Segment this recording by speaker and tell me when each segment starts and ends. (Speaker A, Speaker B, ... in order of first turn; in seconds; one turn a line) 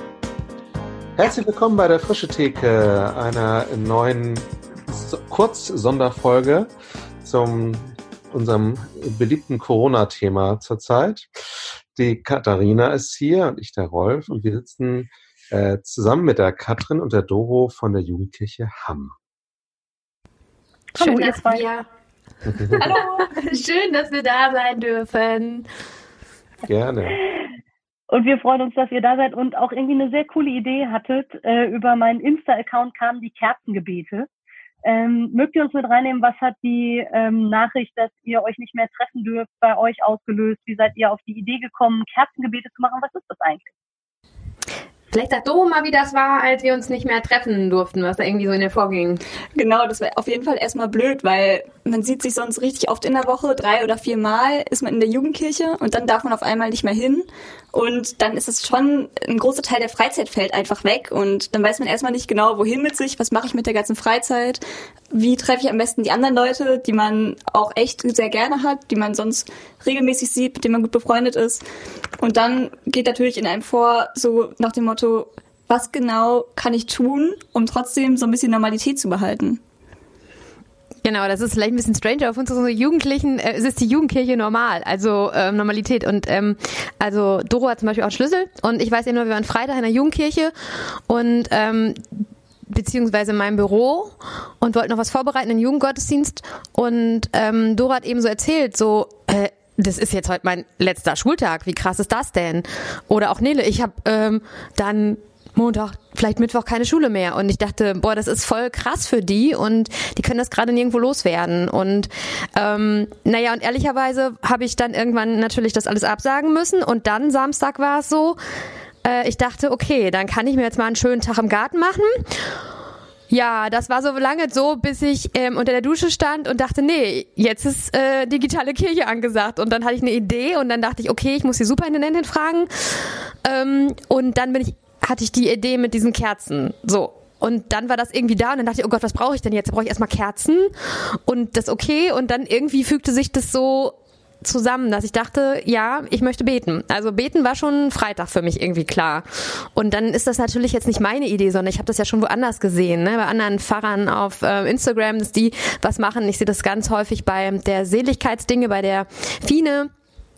Speaker A: 1.2-6.7
Speaker A: 7.2-11.3
Speaker A: 11.9-19.1
Speaker B: 20.9-21.6
Speaker C: 21.0-21.9
Speaker C: 22.5-25.7
Speaker A: 26.7-27.2
Speaker B: 28.1-34.3
Speaker B: 34.8-43.7
Speaker C: 45.1-49.2
Speaker D: 49.5-64.6
Speaker D: 65.1-71.6
Speaker D: 72.2-79.6
Speaker C: 81.0-90.5
Speaker C: 91.1-118.4
Speaker C: 119.0-122.5
Speaker C: 123.3-159.9